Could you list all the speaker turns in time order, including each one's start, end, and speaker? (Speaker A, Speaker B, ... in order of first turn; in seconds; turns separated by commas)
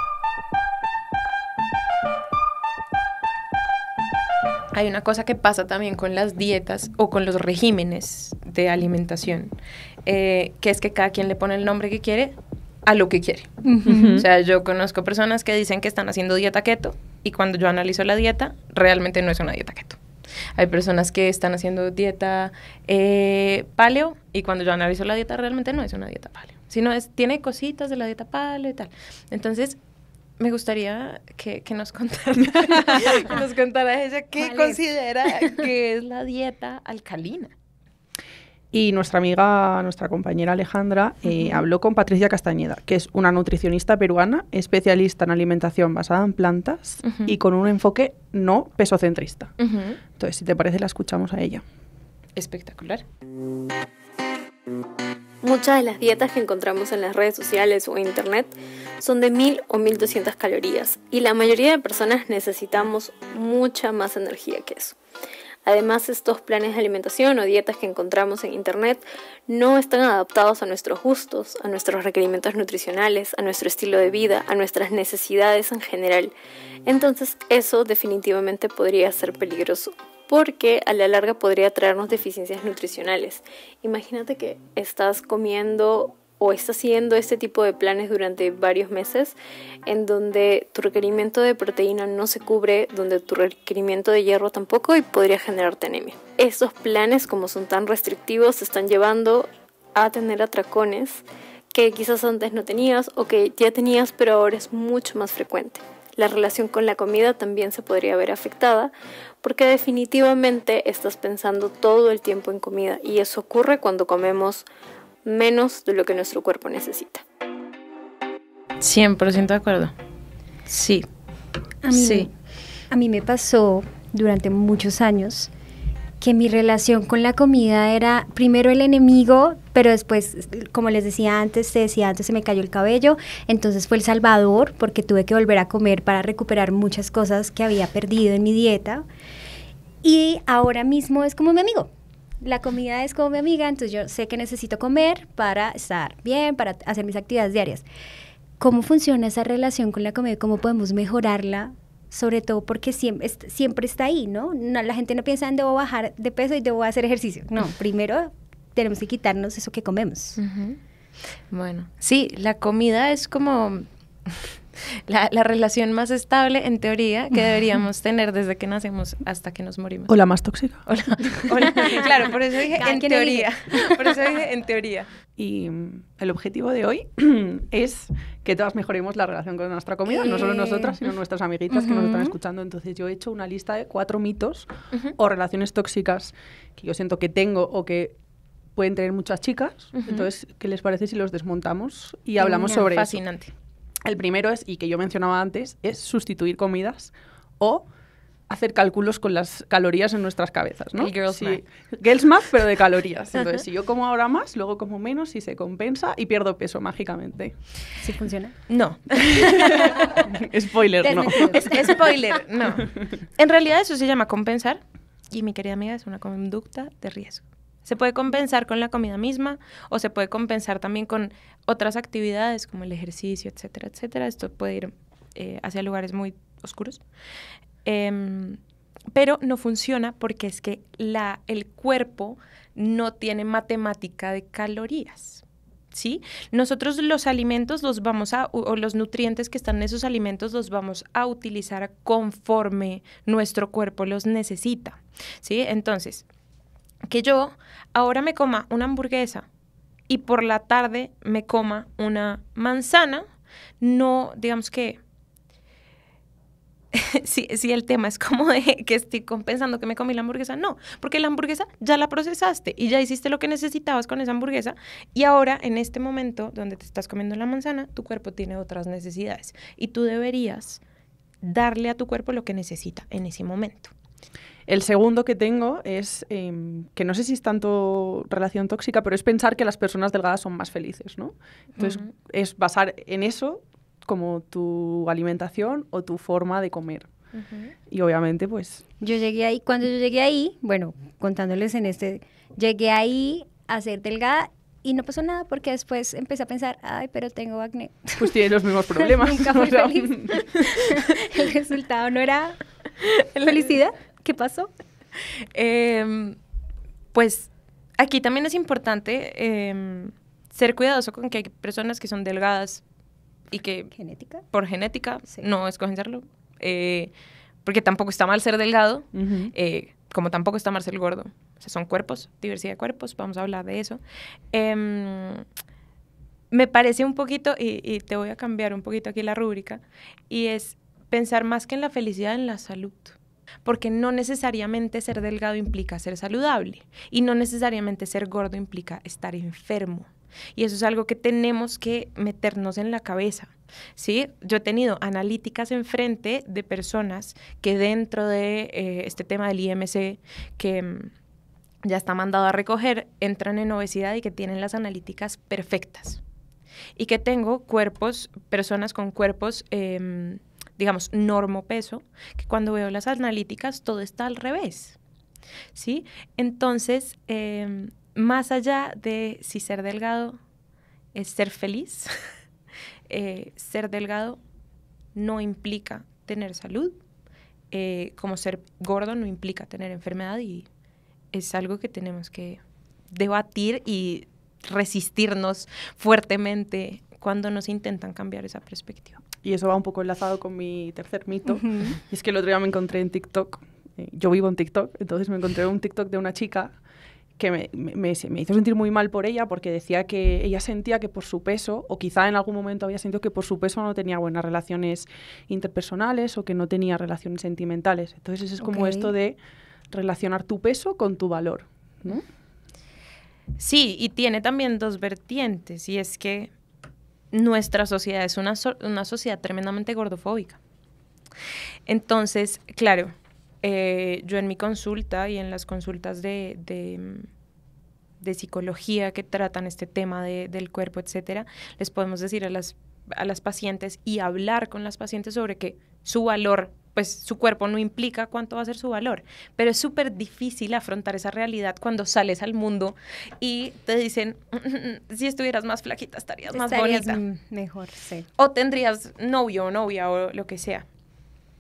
Speaker A: 4.7-9.5, Speaker A: 10.1-12.3, Speaker A: 12.9-13.6, Speaker B: 13.6-14.2, Speaker C: 13.9-14.2, Speaker A: 14.2-20.0, Speaker A: 20.6-29.8, Speaker A: 30.4-37.5, Speaker B: 34.4-34.8, Speaker C: 38.7-49.5, Speaker A: 41.3-41.6, Speaker A: 47.0-47.3, Speaker A: 49.6-50.0, Speaker C: 50.2-51.6, Speaker A: 52.4-53.0, Speaker D: 55.4-65.0, Speaker D: 65.7-76.3, Speaker D: 76.9-114.7, Speaker D: 115.2-117.2, Speaker A: 118.8-119.9, Speaker A: 120.7-121.0, Speaker B: 121.8-122.3, Speaker A: 121.9-122.3, Speaker B: 122.9-125.5, Speaker B: 126.2-139.1, Speaker B: 140.0-141.9, Speaker B: 142.4-147.8, Speaker B: 148.6-160.4, Speaker A: 160.4-160.8, Speaker A: 161.5-170.2, Speaker C: 170.1-171.8, Speaker A: 170.9-175.1, Speaker B: 172.7-174.3, Speaker C: 175.4-188.2, Speaker B: 180.1-181.0, Speaker B: 181.7-182.3, Speaker C: 188.8-193.2, Speaker A: 189.9-190.3, Speaker A: 192.4-193.5, Speaker C: 194.1-197.9, Speaker C: 198.5-207.6, Speaker A: 201.0-201.6, Speaker A: 203.3-203.6, Speaker B: 208.0-208.7, Speaker A: 208.7-210.2, Speaker C: 209.7-211.8, Speaker B: 211.0-212.0, Speaker A: 211.4-227.0, Speaker A: 227.8-228.6, Speaker A: 229.1-246.3, Speaker A: 247.1-249.5, Speaker A: 250.1-253.2, Speaker A: 253.8-255.0, Speaker A: 256.9-270.8, Speaker A: 271.4-273.9, Speaker C: 274.7-287.1, Speaker A: 281.8-282.1, Speaker A: 287.3-287.7, Speaker C: 287.9-288.8, Speaker B: 289.0-298.3, Speaker C: 298.2-300.4, Speaker B: 299.0-302.6, Speaker A: 303.0-303.6, Speaker B: 303.4-304.7, Speaker A: 305.5-306.4, Speaker A: 307.1-312.8, Speaker A: 313.5-313.9, Speaker B: 313.9-314.4, Speaker A: 314.5-317.1, Speaker A: 317.6-324.0, Speaker C: 319.1-319.5, Speaker A: 324.5-325.4, Speaker A: 326.5-351.1, Speaker A: 351.8-356.2, Speaker A: 357.0-365.0, Speaker A: 365.8-370.4, Speaker A: 371.1-372.1, Speaker A: 373.1-374.4, Speaker A: 375.1-376.9, Speaker A: 377.7-380.7, Speaker A: 381.3-389.2, Speaker C: 389.4-396.8, Speaker B: 391.5-392.0, Speaker C: 397.4-409.4, Speaker B: 408.6-409.1, Speaker C: 409.9-412.2, Speaker A: 413.6-416.5, Speaker A: 417.3-420.6, Speaker A: 421.9-427.3, Speaker A: 428.2-447.2, Speaker B: 446.5-448.3, Speaker A: 448.4-450.9